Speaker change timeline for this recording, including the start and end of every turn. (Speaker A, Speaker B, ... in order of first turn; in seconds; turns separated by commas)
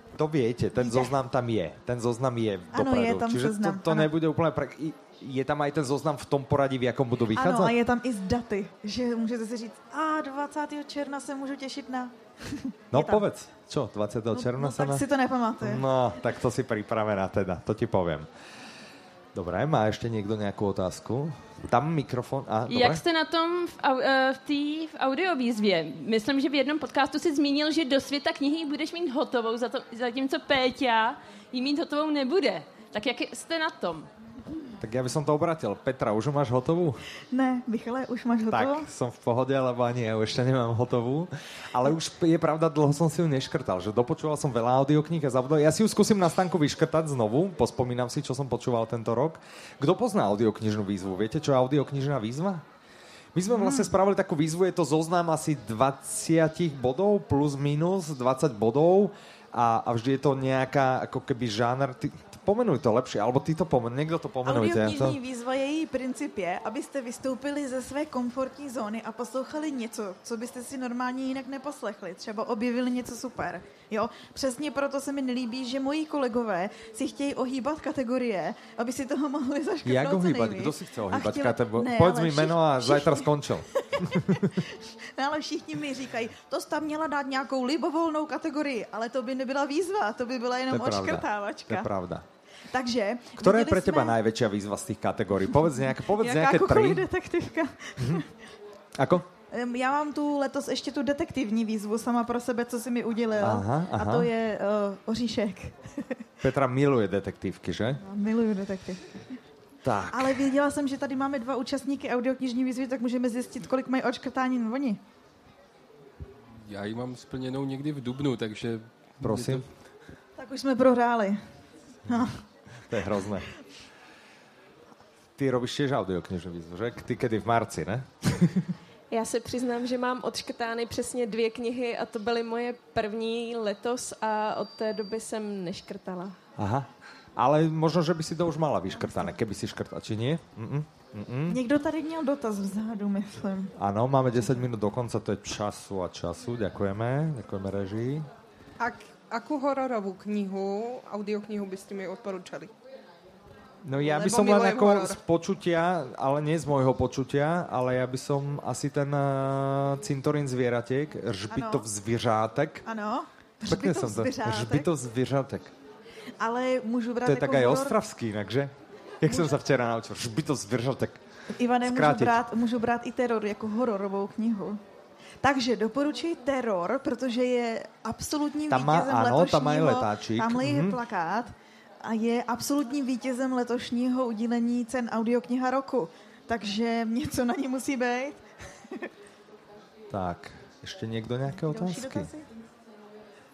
Speaker A: 0.2-7.8, Speaker B: 0.8-1.1, Speaker B: 2.7-4.1, Speaker B: 7.3-13.2, Speaker A: 12.9-15.0, Speaker B: 14.3-15.9, Speaker A: 15.6-18.3, Speaker A: 19.3-23.0, Speaker C: 22.7-34.1, Speaker A: 34.8-37.0, Speaker B: 37.3-38.9, Speaker A: 38.5-52.6, Speaker A: 53.3-65.2, Speaker B: 53.5-53.9, Speaker B: 64.5-83.3, Speaker A: 79.8-84.5, Speaker B: 83.8-91.9, Speaker A: 90.7-92.3, Speaker B: 92.7-94.2, Speaker A: 93.4-97.1, Speaker B: 95.7-98.3, Speaker A: 98.0-98.2, Speaker A: 99.0-99.3, Speaker B: 99.5-106.2, Speaker A: 103.4-104.3, Speaker A: 106.4-108.0, Speaker B: 108.0-109.0, Speaker A: 109.8-110.5, Speaker B: 110.1-115.0, Speaker D: 116.7-119.7, Speaker A: 119.2-119.7, Speaker B: 120.4-121.4, Speaker B: 122.1-122.4, Speaker A: 122.9-123.5, Speaker A: 125.4-128.7, Speaker E: 129.1-136.4, Speaker A: 136.6-141.6, Speaker B: 141.5-143.7, Speaker A: 143.8-148.3, Speaker F: 148.8-152.7, Speaker A: 153.8-162.8, Speaker F: 154.0-155.2, Speaker B: 161.5-161.8, Speaker B: 162.8-164.9, Speaker A: 163.7-165.7, Speaker B: 166.4-167.9, Speaker A: 167.2-171.2, Speaker B: 169.3-169.5, Speaker B: 171.5-174.8, Speaker A: 171.8-172.4, Speaker B: 175.4-189.1, Speaker A: 178.7-181.0, Speaker A: 190.1-192.3, Speaker B: 191.6-192.5